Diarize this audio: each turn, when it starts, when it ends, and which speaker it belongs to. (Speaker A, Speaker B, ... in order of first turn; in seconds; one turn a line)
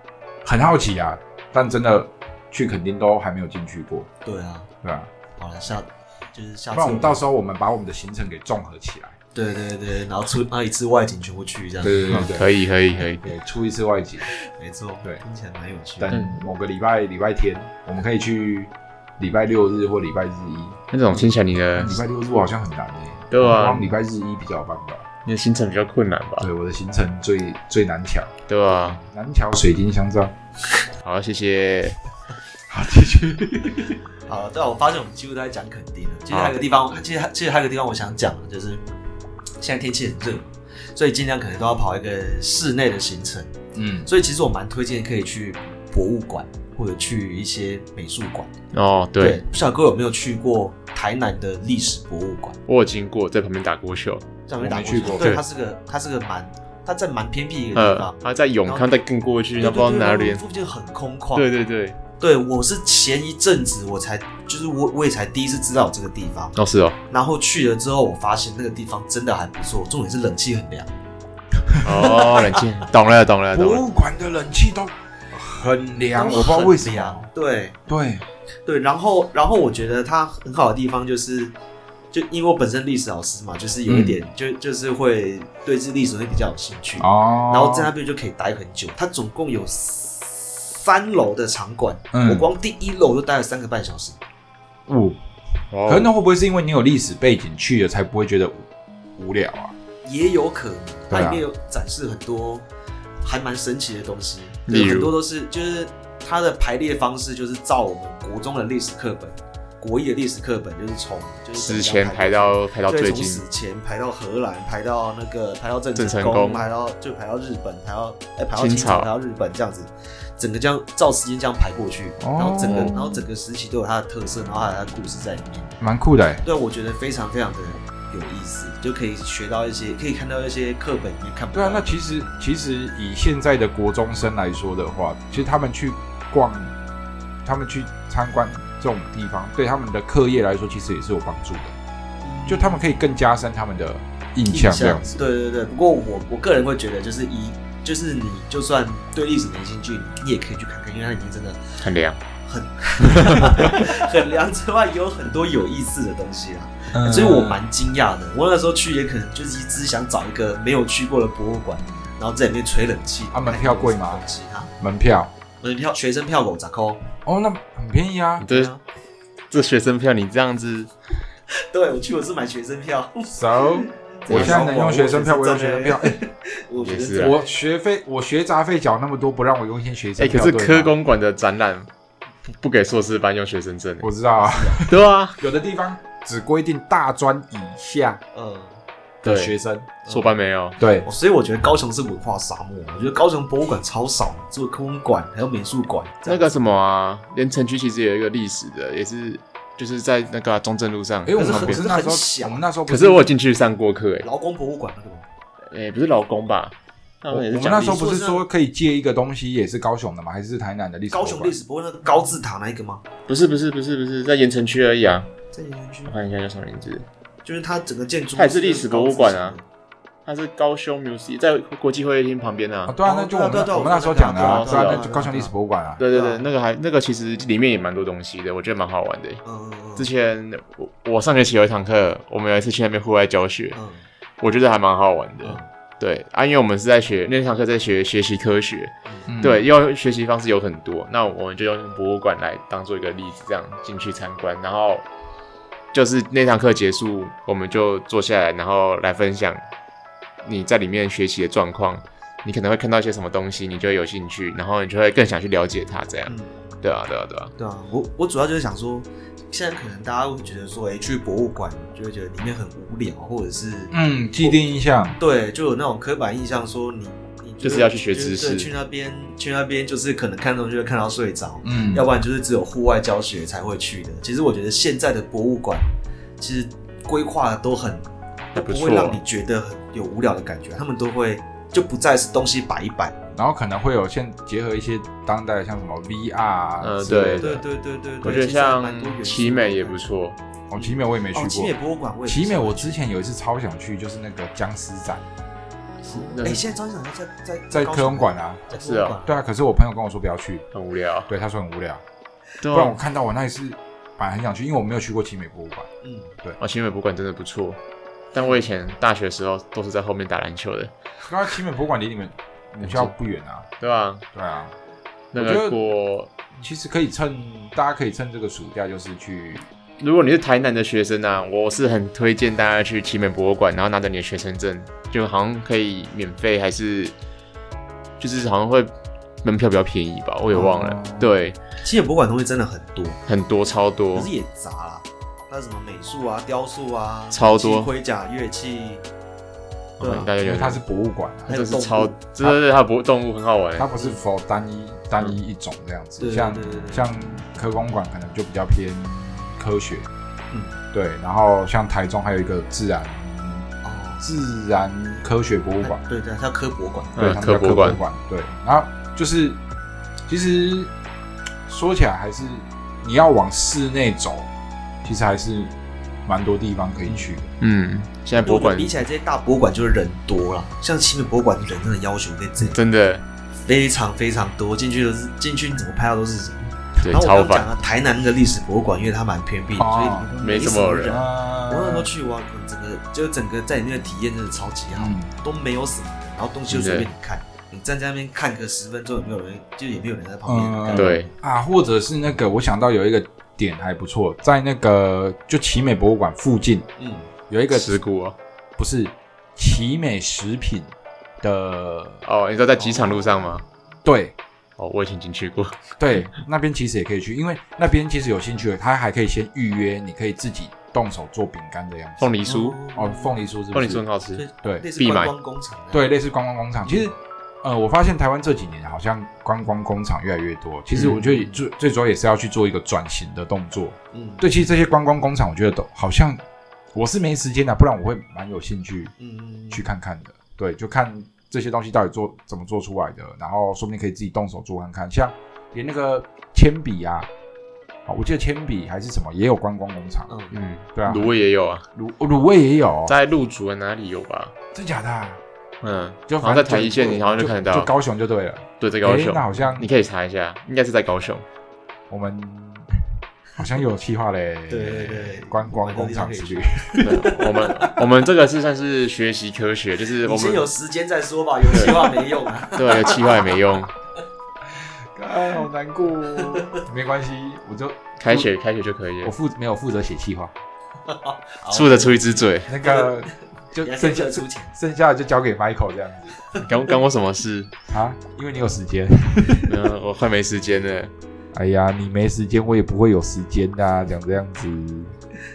Speaker A: 0.4-4.1
Speaker B: 4.2-4.7
Speaker A: 4.8-5.1
Speaker B: 5.4-7.2
Speaker A: 6.7-9.2
Speaker B: 9.3-12.3
Speaker A: 11.8-12.6
Speaker C: 12.1-13.3
Speaker A: 13.2-14.3
Speaker B: 14.2-16.2
Speaker A: 16.0-25.1
Speaker C: 16.1-16.4
Speaker C: 20.9-22.0
Speaker C: 23.3-23.9
Speaker C: 25.3-26.5
Speaker A: 26.4-28.3
Speaker C: 28.5-29.0
Speaker A: 29.1-30.3
Speaker C: 31.0-32.0
Speaker A: 32.7-34.0
Speaker B: 34.2-38.8
Speaker C: 36.3-36.6
Speaker B: 39.6-43.5
Speaker A: 43.8-44.1
Speaker B: 44.1-48.5
Speaker C: 48.7-49.4
Speaker B: 49.2-52.6
Speaker C: 52.7-54.2
Speaker B: 54.5-58.9
Speaker A: 54.6-55.4
Speaker C: 55.2-55.4
Speaker C: 57.8-60.4
Speaker B: 59.6-61.5
Speaker C: 61.4-62.0
Speaker B: 62.2-66.5
Speaker C: 66.6-67.0
Speaker B: 67.1-70.9
Speaker C: 71.8-73.8
Speaker B: 72.0-72.6
Speaker A: 73.5-77.3
Speaker B: 76.1-77.8
Speaker A: 77.9-78.2
Speaker B: 78.7-81.5
Speaker B: 82.1-94.2
Speaker A: 83.9-84.2
Speaker A: 87.0-87.9
Speaker A: 92.1-92.5
Speaker A: 94.9-95.2
Speaker C: 95.7-96.1
Speaker A: 95.9-99.8
Speaker B: 100.0-102.7
Speaker A: 101.1-101.4
Speaker B: 103.2-125.8
Speaker C: 104.7-105.2
Speaker C: 111.6-113.4
Speaker C: 116.0-116.7
Speaker C: 118.5-119.1
Speaker A: 122.2-123.2
Speaker C: 122.7-122.9
Speaker A: 125.8-126.4
Speaker B: 126.4-132.3
Speaker A: 131.5-136.7
Speaker A: 137.4-141.8
Speaker B: 142.2-142.9
Speaker A: 142.5-145.2
Speaker B: 144.5-151.8
Speaker C: 151.8-152.2
Speaker B: 152.4-164.7
Speaker C: 153.1-153.8
Speaker A: 156.9-157.6
Speaker A: 163.3-164.2
Speaker A: 164.8-165.3
Speaker B: 165.6-167.0
Speaker A: 167.2-168.5
Speaker C: 168.4-168.7
Speaker B: 168.4-168.8
Speaker C: 169.5-170.9
Speaker B: 171.5-177.5
Speaker A: 173.3-176.2
Speaker C: 174.3-174.7
Speaker C: 176.8-177.3
Speaker A: 177.2-180.9
Speaker C: 180.2-181.9
Speaker C: 182.6-184.1
Speaker A: 184.0-188.2
Speaker B: 184.4-184.9
Speaker C: 184.9-185.4
Speaker B: 188.3-188.8
Speaker A: 189.2-189.9
Speaker C: 189.2-189.6
Speaker B: 190.1-190.3
Speaker C: 190.1-190.8
Speaker A: 190.8-191.1
Speaker B: 191.0-196.6
Speaker C: 196.3-201.8
Speaker A: 201.3-203.3
Speaker B: 201.3-202.6
Speaker C: 202.9-204.3
Speaker B: 204.2-205.3
Speaker C: 205.7-208.1
Speaker A: 207.3-211.6
Speaker B: 207.7-208.4
Speaker B: 211.1-213.0
Speaker C: 213.3-215.3
Speaker B: 215.5-216.2
Speaker C: 216.1-217.1
Speaker B: 217.4-219.6
Speaker C: 218.4-219.6
Speaker C: 220.3-222.9
Speaker A: 222.9-226.0
Speaker B: 223.0-225.5
Speaker C: 224.2-225.0
Speaker C: 226.0-229.4
Speaker B: 226.1-226.4
Speaker B: 229.4-230.1
Speaker C: 230.0-233.8
Speaker B: 233.8-234.0
Speaker C: 234.4-245.1
Speaker A: 239.3-239.7
Speaker C: 245.9-249.6
Speaker C: 250.4-257.5
Speaker B: 256.3-256.7
Speaker B: 257.6-264.6
Speaker A: 263.9-265.2
Speaker B: 265.2-275.9
Speaker C: 267.6-268.7
Speaker A: 271.6-272.1
Speaker B: 276.4-283.2
Speaker C: 278.6-279.2
Speaker A: 283.4-287.5
Speaker C: 286.8-287.6
Speaker B: 287.4-290.1
Speaker C: 288.2-290.4
Speaker A: 290.7-291.7
Speaker B: 290.8-293.0
Speaker A: 292.3-295.3
Speaker C: 296.0-296.6
Speaker B: 296.1-299.4
Speaker A: 297.7-298.6
Speaker C: 298.7-299.1
Speaker A: 299.2-300.7
Speaker C: 300.7-301.3
Speaker A: 301.3-302.0
Speaker C: 302.6-303.0
Speaker A: 302.7-305.9
Speaker B: 306.0-306.4
Speaker C: 306.6-307.8
Speaker C: 308.3-310.9
Speaker A: 311.3-313.7
Speaker C: 312.8-313.1
Speaker C: 313.8-314.2
Speaker A: 314.3-314.8
Speaker C: 315.3-316.5
Speaker A: 315.3-315.8
Speaker A: 316.6-319.6
Speaker C: 320.0-327.1
Speaker C: 328.2-328.9
Speaker C: 329.4-331.6
Speaker A: 330.5-331.3
Speaker B: 331.8-333.2
Speaker C: 333.3-334.3
Speaker B: 334.1-339.0
Speaker C: 337.3-337.9
Speaker C: 340.0-340.8
Speaker B: 340.0-340.3
Speaker A: 340.4-341.5
Speaker C: 341.5-343.9
Speaker B: 341.5-342.2
Speaker A: 343.8-350.1
Speaker B: 346.2-347.1
Speaker B: 350.5-350.8
Speaker A: 350.9-353.7
Speaker B: 353.8-354.2
Speaker A: 354.2-356.0
Speaker B: 355.8-357.2
Speaker C: 357.2-358.0
Speaker A: 357.2-359.6
Speaker A: 360.3-360.9
Speaker A: 361.7-364.5
Speaker A: 365.0-365.7
Speaker A: 366.3-367.5
Speaker B: 367.0-367.3
Speaker C: 367.6-368.9
Speaker B: 368.3-372.8
Speaker C: 372.6-373.2
Speaker B: 373.7-391.3
Speaker C: 377.0-377.7
Speaker A: 379.8-380.3
Speaker C: 380.4-381.2
Speaker A: 381.1-382.1
Speaker A: 384.9-385.3
Speaker C: 386.7-387.1
Speaker A: 390.5-396.9
Speaker C: 390.9-391.3
Speaker B: 397.0-397.3
Speaker A: 397.5-398.0
Speaker C: 397.7-398.4
Speaker A: 398.8-402.2
Speaker C: 402.2-403.6
Speaker B: 402.8-403.6
Speaker A: 404.1-404.4
Speaker C: 404.8-405.9
Speaker A: 406.0-412.3
Speaker C: 412.2-412.8
Speaker B: 412.4-413.3
Speaker A: 412.9-414.0
Speaker C: 413.7-414.4
Speaker B: 414.4-416.1
Speaker C: 415.0-415.3
Speaker A: 415.9-426.4
Speaker B: 416.8-417.1
Speaker B: 420.9-421.6
Speaker B: 424.1-424.7
Speaker A: 426.9-429.1
Speaker B: 429.2-429.9
Speaker A: 429.7-437.3
Speaker A: 438.1-440.3
Speaker B: 440.3-440.6
Speaker C: 440.5-441.9
Speaker A: 441.0-441.4
Speaker A: 441.9-443.1
Speaker C: 443.1-444.5
Speaker A: 444.7-445.4
Speaker C: 445.8-447.9
Speaker A: 446.3-449.9
Speaker C: 448.8-451.4
Speaker A: 452.1-452.9
Speaker A: 453.6-457.4
Speaker B: 454.7-458.0
Speaker C: 457.0-460.7
Speaker B: 460.2-463.5
Speaker C: 461.7-462.2
Speaker C: 462.7-463.9
Speaker A: 464.8-468.5
Speaker B: 466.4-466.8
Speaker C: 468.2-469.3
Speaker A: 469.2-470.5
Speaker B: 471.1-474.8
Speaker C: 471.7-472.7
Speaker A: 472.7-476.4
Speaker C: 476.6-477.7
Speaker A: 477.9-479.9
Speaker C: 479.6-481.1
Speaker A: 481.5-485.1